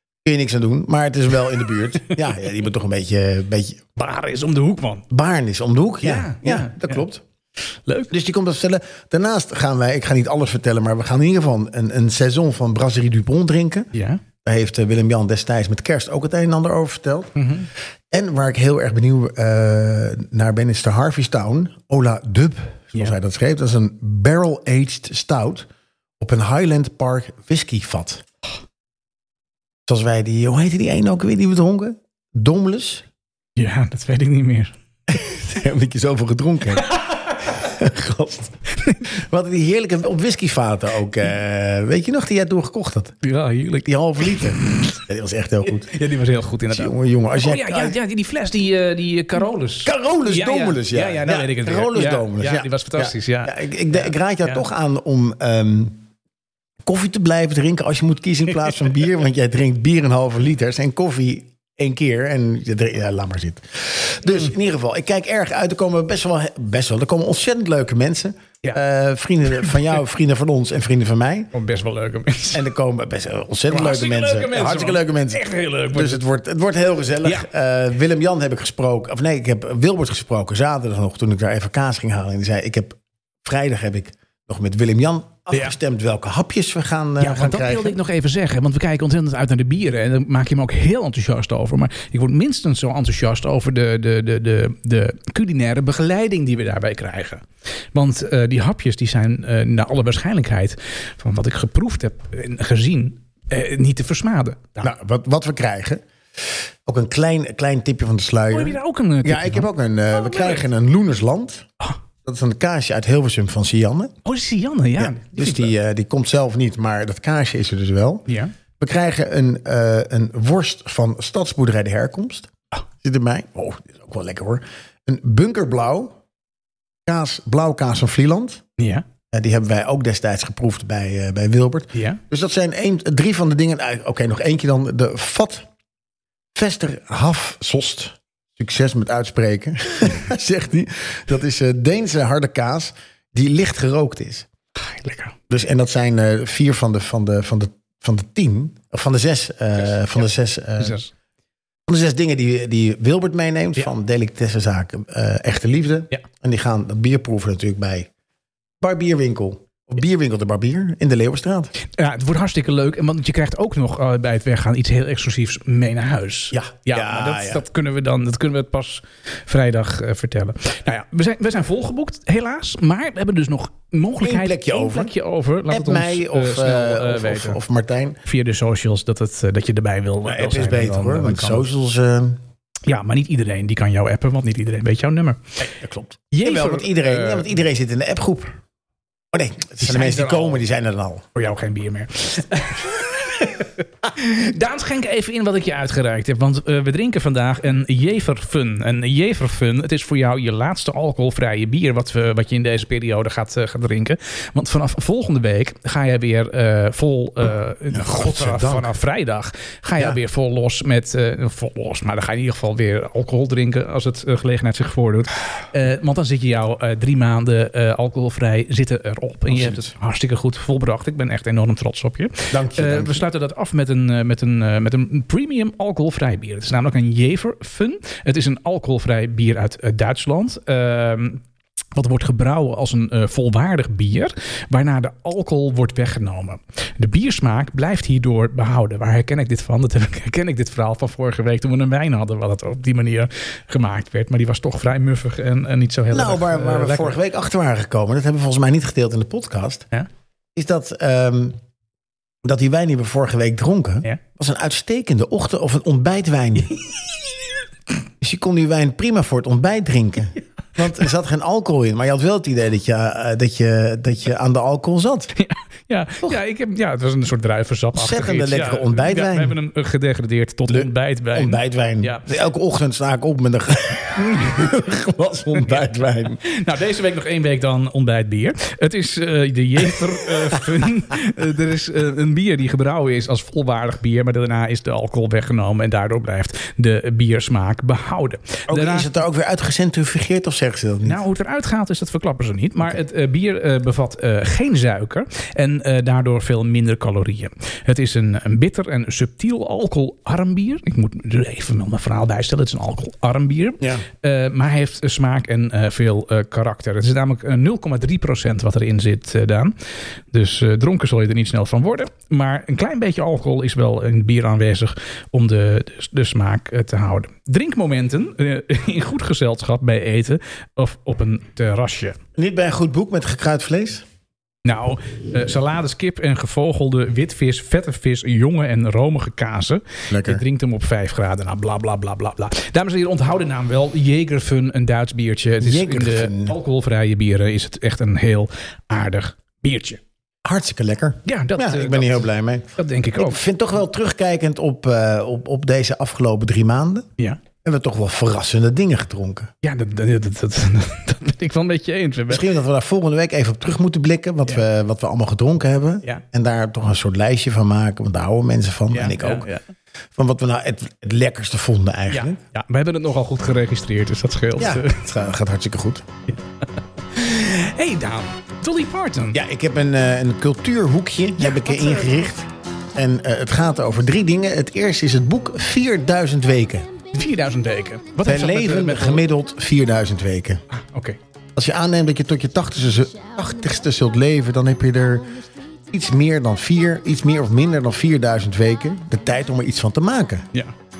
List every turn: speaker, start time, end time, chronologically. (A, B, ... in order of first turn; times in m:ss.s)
0:00.2-0:03.8 A
0:04.0-0:05.0 B
0:05.1-0:07.2 A
0:06.0-0:07.0 B
0:07.8-0:08.1 B
0:08.1-0:13.9 A
0:13.9-0:14.2 B
0:14.4-0:17.4 A
0:17.4-0:17.7 B
0:18.1-0:25.7 A
0:26.2-0:28.2 A
0:29.9-0:33.0 A
0:33.6-0:34.7 B
0:35.1-0:38.5 A
0:39.0-0:43.2 A
0:43.2-0:44.6 B
0:43.8-0:45.9 A
0:45.6-0:54.6 B
0:46.7-0:48.0 A
0:49.8-0:56.0 A
0:56.8-1:11.5 A
1:11.5-1:12.6 B
1:12.5-1:28.0 A
1:13.7-1:16.2 B
1:27.2-1:44.9 B
1:44.8-1:51.7 A
1:48.5-1:50.6 B
1:52.2-1:54.1 A
1:54.2-1:55.7 B
1:55.0-1:58.3 A
1:58.8-2:02.5 A
2:03.0-2:06.2 A
2:07.0-2:08.6 A
2:08.8-2:09.0 B
2:09.3-2:15.7 A
2:11.9-2:12.2 B
2:16.5-2:24.5 A
2:24.8-2:25.4 B
2:25.5-2:31.0 A
2:30.8-2:31.1 B
2:31.9-2:38.1 A
2:38.8-2:41.7 A
2:41.8-2:57.6 B
2:46.5-2:47.6 A
2:54.2-2:55.1 A
2:55.7-2:58.2 A
2:58.2-3:01.7 B
3:00.2-3:02.4 A
3:02.8-3:05.4 B
3:05.6-3:08.6 A
3:06.3-3:07.5 B
3:09.3-3:11.2 A
3:09.8-3:10.6 B
3:11.3-3:51.4 B
3:27.9-3:28.9 A
3:39.5-3:39.9 A
3:42.5-3:43.2 A
3:51.9-4:07.2 B
4:06.1-4:09.9 A
4:10.5-4:11.6 A
4:12.4-4:16.7 A
4:18.2-4:25.3 A
4:25.4-4:32.2 B
4:27.9-4:29.6 A
4:30.7-4:36.4 A
4:34.2-4:34.7 B
4:36.4-4:49.1 B
4:48.7-4:51.2 A
4:51.0-5:09.7 B
5:10.3-5:22.2 B
5:22.4-5:24.0 A
5:24.6-5:40.0 B
5:30.1-5:30.4 A
5:35.6-5:36.6 A
5:40.4-5:47.1 A
5:41.2-5:43.4 B
5:47.6-5:49.5 A
5:49.6-5:52.5 B
5:52.3-5:59.5 A
5:58.9-5:59.6 B
6:00.2-6:02.4 A
6:02.1-6:05.0 B
6:04.6-6:06.0 A
6:07.1-6:09.4 B
6:09.3-6:16.9 A
6:11.4-6:12.3 B
6:17.1-6:19.2 B
6:18.2-6:20.6 A
6:20.7-6:21.2 B
6:21.5-6:25.3 A
6:25.9-6:30.5 A